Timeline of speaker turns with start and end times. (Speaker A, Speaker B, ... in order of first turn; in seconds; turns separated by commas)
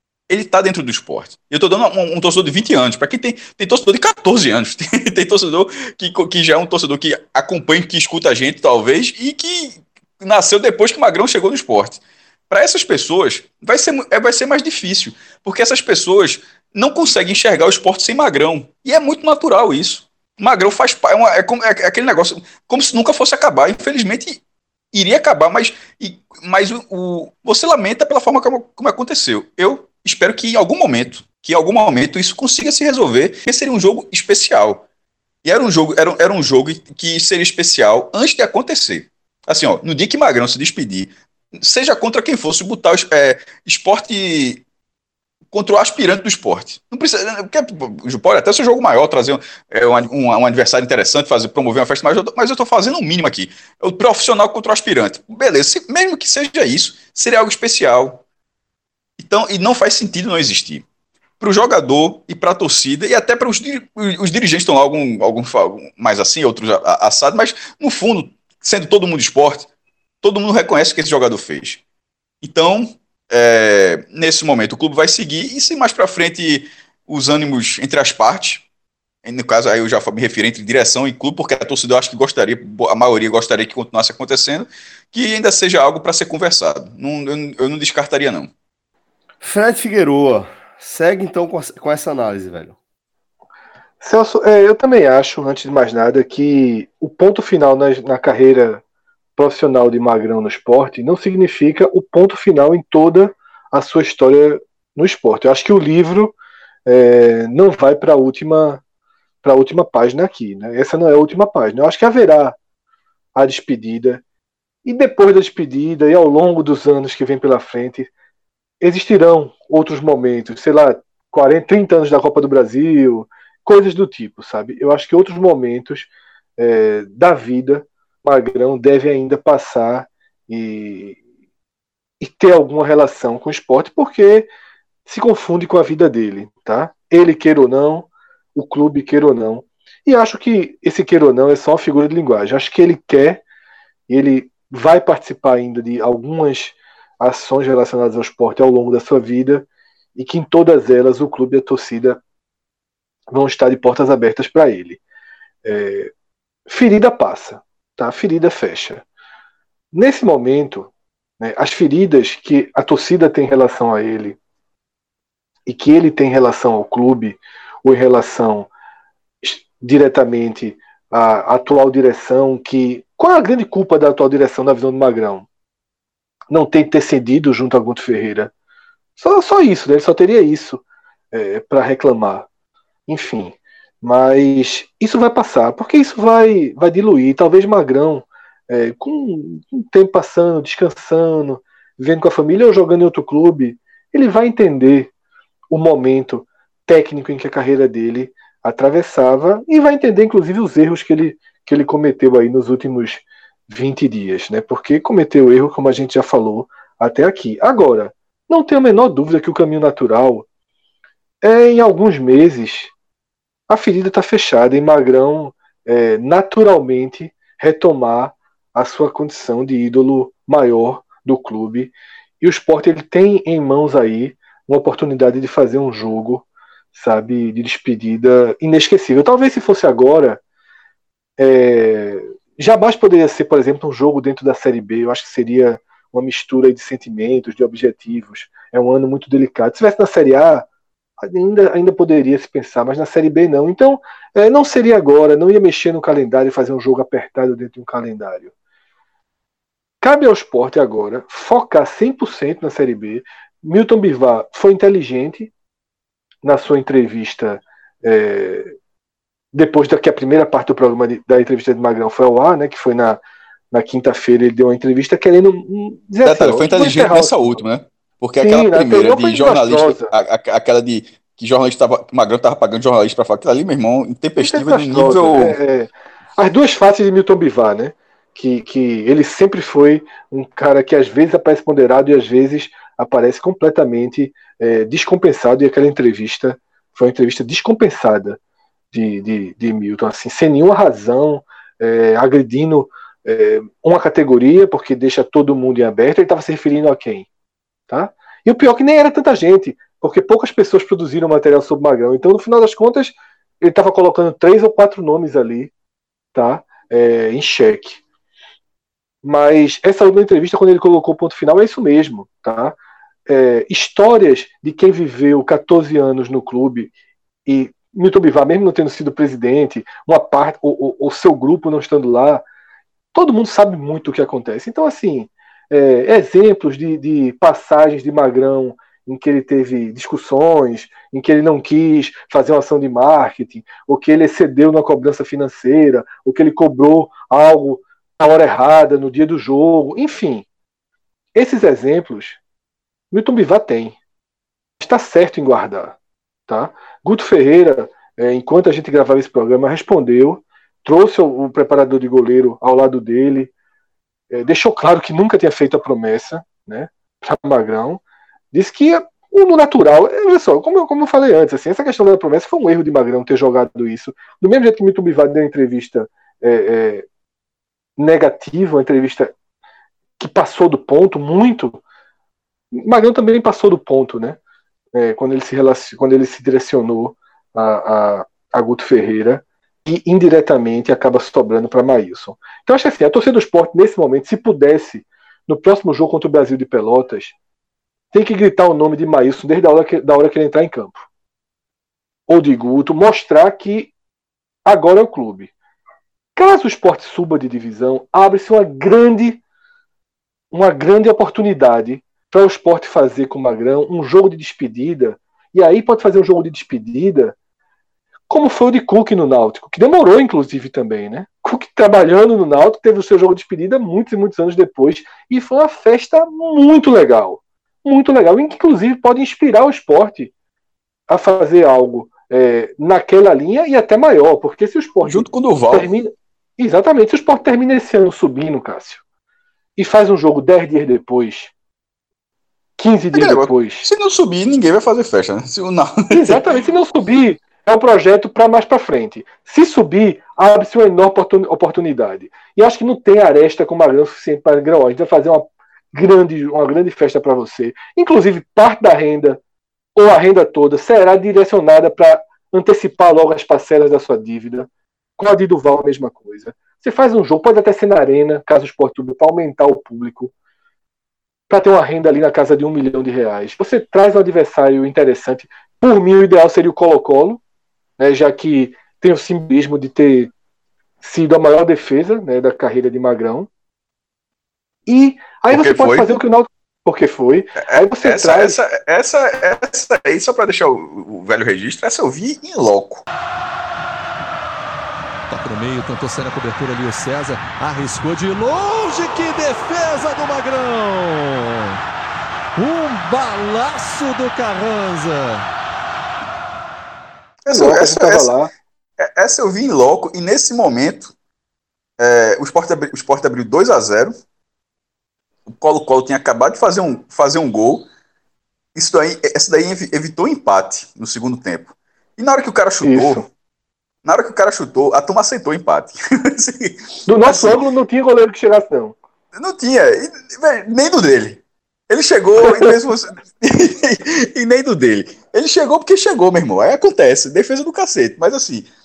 Speaker A: 0.3-24.4, Speaker A: 24.9-34.8, Speaker A: 35.4-44.6, Speaker A: 45.5-58.2, Speaker A: 59.2-60.8, Speaker A: 61.4-69.7, Speaker A: 70.2-71.8, Speaker A: 72.4-78.6, Speaker A: 79.2-88.5, Speaker B: 89.4-92.8, Speaker C: 94.0-98.8, Speaker C: 99.4-106.3, Speaker C: 106.9-108.8, Speaker C: 109.4-112.6, Speaker C: 113.3-114.2, Speaker C: 114.8-118.1, Speaker C: 118.8-131.2, Speaker C: 132.2-134.5, Speaker C: 135.1-143.4, Speaker C: 144.1-152.2, Speaker C: 153.3-155.0, Speaker C: 155.6-156.1, Speaker C: 156.7-159.0, Speaker C: 159.9-164.4, Speaker C: 165.7-168.7, Speaker C: 169.4-175.4, Speaker C: 176.5-178.5, Speaker C: 179.2-182.5, Speaker C: 183.1-195.1, Speaker C: 195.7-210.4, Speaker C: 211.4-212.9, Speaker C: 213.7-230.4, Speaker C: 231.4-240.7, Speaker C: 241.2-248.5, Speaker C: 250.0-255.5, Speaker C: 256.4-258.7, Speaker C: 259.5-263.2, Speaker C: 263.7-267.6, Speaker A: 266.2-275.6, Speaker C: 268.4-270.1, Speaker C: 274.4-288.4, Speaker C: 288.9-297.3, Speaker C: 297.9-305.7, Speaker C: 306.3-308.0, Speaker C: 309.2-312.8, Speaker C: 313.3-316.9, Speaker C: 317.4-322.4, Speaker C: 323.1-340.4, Speaker C: 341.3-342.4, Speaker C: 343.1-343.9, Speaker C: 344.8-345.9, Speaker C: 346.5-353.5, Speaker C: 354.3-358.0, Speaker C: 358.5-367.1, Speaker C: 368.0-369.3, Speaker C: 370.2-371.8, Speaker C: 372.7-374.4, Speaker C: 374.9-387.3, Speaker C: 388.1-391.0, Speaker C: 392.3-393.9, Speaker C: 394.6-395.5, Speaker C: 396.4-399.4, Speaker C: 400.5-407.3, Speaker C: 408.3-420.3, Speaker C: 421.1-429.0, Speaker A: 425.0-425.9, Speaker C: 429.8-431.5, Speaker C: 432.8-433.9, Speaker A: 433.1-436.4, Speaker C: 436.1-449.4, Speaker C: 449.9-460.3, Speaker C: 461.5-467.4, Speaker C: 468.0-470.3, Speaker C: 471.0-473.5, Speaker C: 474.9-478.6, Speaker A: 475.5-476.1, Speaker A: 477.6-483.0, Speaker D: 485.3-491.7, Speaker D: 492.6-495.4, Speaker A: 497.4-498.3, Speaker C: 497.5-498.5, Speaker A: 499.0-501.1, Speaker A: 502.0-504.1, Speaker A: 505.5-507.9, Speaker A: 508.7-513.2, Speaker C: 512.8-513.3, Speaker A: 514.0-517.6, Speaker C: 517.1-519.0, Speaker A: 519.3-528.7, Speaker C: 522.4-522.7